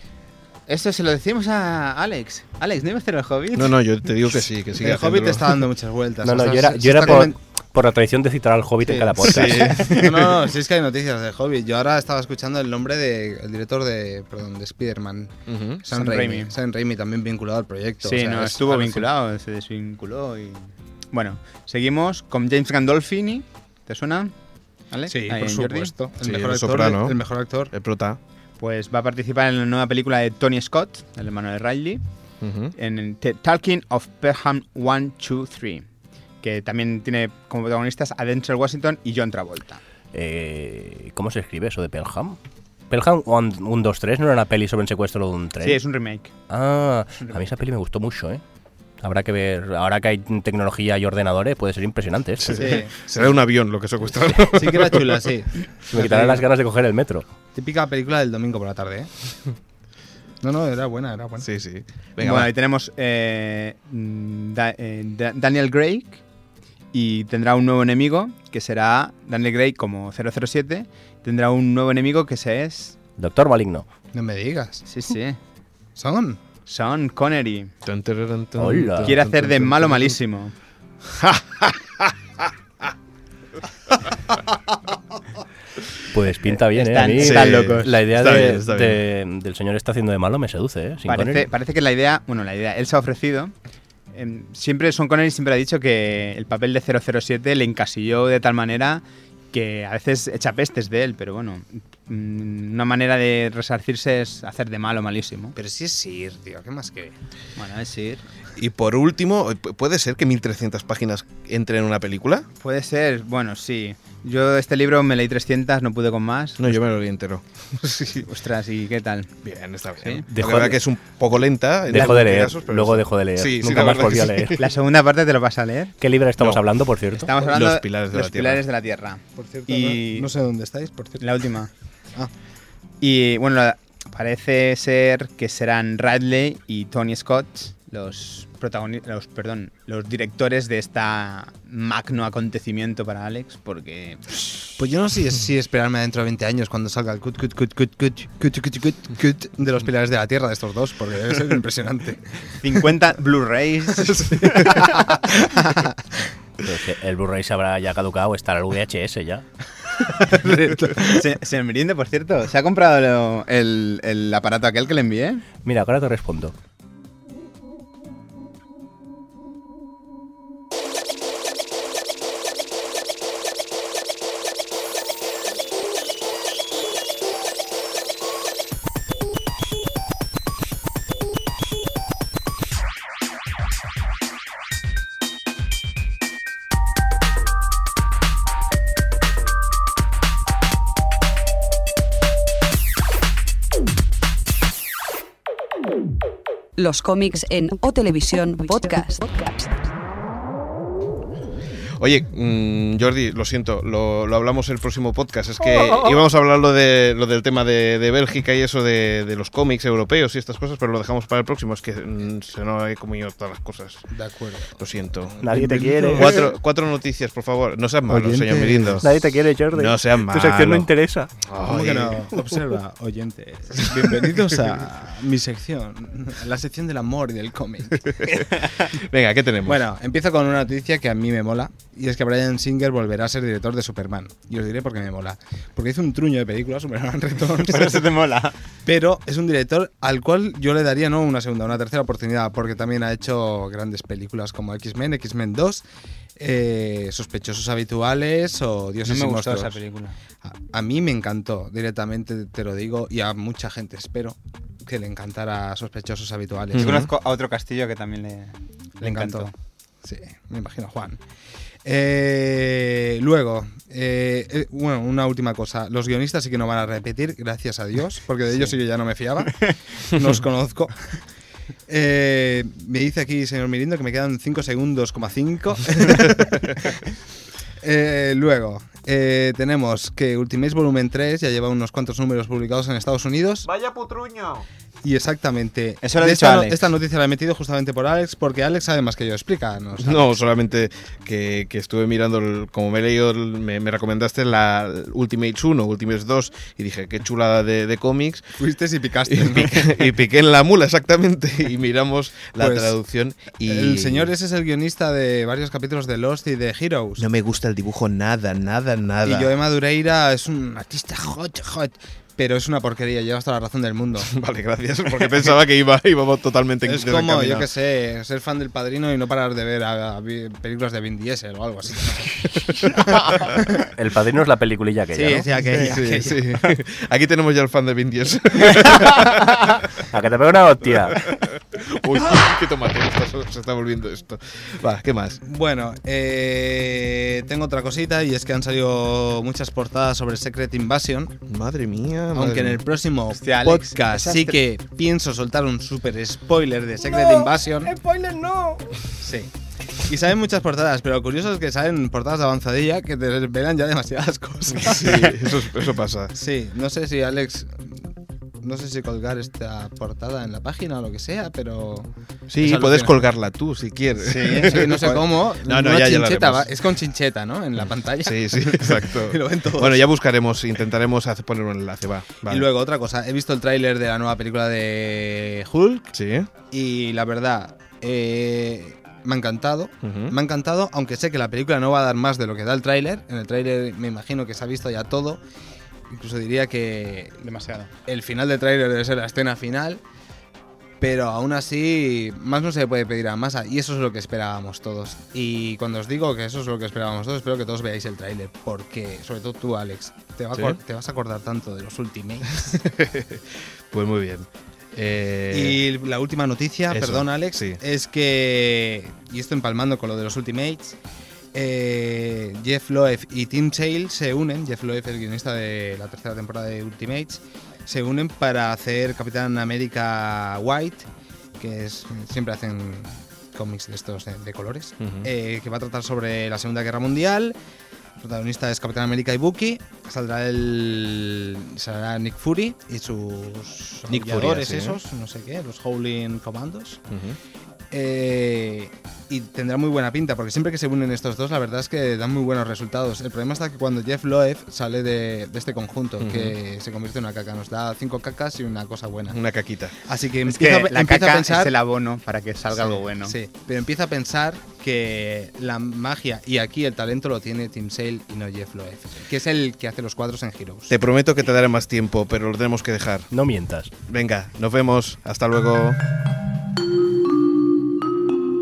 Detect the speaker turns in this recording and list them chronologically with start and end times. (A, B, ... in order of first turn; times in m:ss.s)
0:00.7-0:03.8 A
0:03.5-0:05.7 B
0:04.8-0:07.4 C
0:06.2-0:09.8 D
0:08.8-0:19.1 C
0:09.2-0:10.4 B
0:15.5-0:15.8 B
0:15.9-0:16.5 A
0:18.0-0:24.4 A
0:24.9-0:25.9 A
0:25.1-0:27.7 C
0:26.2-0:28.2 B
0:28.6-0:32.0 A
0:32.4-0:32.7 B
0:32.7-0:35.9 A
0:36.4-0:39.8 A
0:40.1-0:42.4 D
0:42.9-0:45.8 D
0:45.6-0:46.3 A
0:46.5-0:48.4 D
0:49.0-0:52.6 D
0:52.4-0:55.3 B
0:52.6-0:53.4 C
0:54.5-0:56.4 C
0:55.9-0:57.2 D
0:57.6-0:59.1 C
1:00.4-1:01.5 C
1:01.4-1:02.5 B
1:02.2-1:06.2 A
1:06.9-1:13.0 A
1:13.2-1:13.9 D
1:14.1-1:14.8 C
1:14.9-1:15.4 A
1:16.0-1:16.4 C
1:16.7-1:17.7 A
1:17.8-1:20.1 B
1:18.6-1:19.1 D
1:19.0-1:20.5 A
1:21.1-1:22.1 B
1:26.1-1:31.5 D
1:26.6-1:28.4 A
1:27.2-1:29.0 B
1:31.1-1:33.5 A
1:34.1-1:45.6 A
1:45.6-1:47.2 C
1:47.6-1:48.2 A
1:48.6-1:52.4 B
1:52.6-1:56.8 A
1:56.6-1:58.2 B
1:58.1-1:59.3 A
1:59.4-2:04.7 B
2:00.3-2:00.8 D
2:01.9-2:04.6 D
2:04.6-2:06.0 A
2:06.0-2:07.3 D
2:07.2-2:10.3 A
2:07.4-2:08.6 B
2:09.4-2:11.4 C
2:11.2-2:11.7 A
2:13.0-2:24.7 A
2:24.8-2:32.3 C
2:32.6-2:35.8 A
2:34.0-2:36.0 C
2:36.6-2:39.4 D
2:40.1-2:41.2 C
2:41.0-2:45.4 A
2:45.6-2:46.5 D
3:16.8-3:19.9 E
3:22.0-3:34.1 B
3:34.1-3:36.4 C
3:34.8-3:35.4 B
3:35.4-3:36.4 D
3:36.1-3:39.1 B
3:38.1-3:39.0 C
3:39.0-3:41.3 D
3:39.7-3:40.9 B
3:41.5-3:42.3 B
3:41.6-3:48.4 C
3:48.9-3:49.8 B
3:49.6-3:58.1 C
3:57.6-3:58.6 A
3:58.8-4:05.8 C
4:06.4-4:09.8 C
4:09.0-4:10.2 A
4:10.4-4:17.1 C
4:16.7-4:17.1 B
4:16.8-4:19.5 A
4:19.0-4:19.5 C
4:20.0-4:21.2 C
4:21.8-4:31.2 C
4:31.9-4:37.0 C
4:37.8-4:43.7 C
4:43.6-4:44.7 B
4:45.0-4:50.3 C
4:46.0-4:46.8 A
4:50.0-4:58.6 B
4:58.6-5:00.1 C
4:59.3-5:04.3 B
5:02.6-5:03.0 C
5:03.6-5:07.3 C
5:07.2-5:09.5 B
5:09.2-5:14.3 C
5:14.2-5:17.7 B
5:16.8-5:23.8 C
5:24.0-5:25.5 D
5:25.1-5:26.6 C
5:25.7-5:30.0 B
5:30.1-5:31.2 D
5:31.1-5:35.4 B
5:35.4-5:41.4 C
5:41.5-5:42.8 B
5:42.3-5:48.0 C
5:43.3-5:44.6 A
5:48.1-5:48.4 A
5:49.1-5:49.5 C
5:50.0-5:55.6 C
5:54.7-5:56.3 B
5:56.3-6:03.3 C
6:02.5-6:06.7 B
6:04.3-6:05.2 A
6:04.4-6:10.1 C
6:08.2-6:12.7 B
6:12.4-6:16.1 C
6:16.1-6:16.5 B
6:16.7-6:25.4 C
6:20.0-6:20.4 B
6:26.1-6:27.4 C
6:27.4-6:27.9 A
6:28.1-6:30.0 C
6:31.0-6:42.8 C
6:42.6-6:45.8 B
6:45.5-6:51.0 C
6:46.9-6:47.8 B
6:51.5-7:07.6 C
7:05.0-7:05.3 B
7:08.2-7:17.0 C
7:14.1-7:15.0 B
7:17.1-7:17.4 B
7:17.9-7:29.4 C
7:26.2-7:26.6 B
7:29.3-7:30.0 B
7:30.0-7:31.7 C
7:30.4-7:33.4 A
7:32.7-7:41.0 C
7:40.9-7:43.3 B
7:43.3-7:43.9 D
7:44.1-7:46.0 B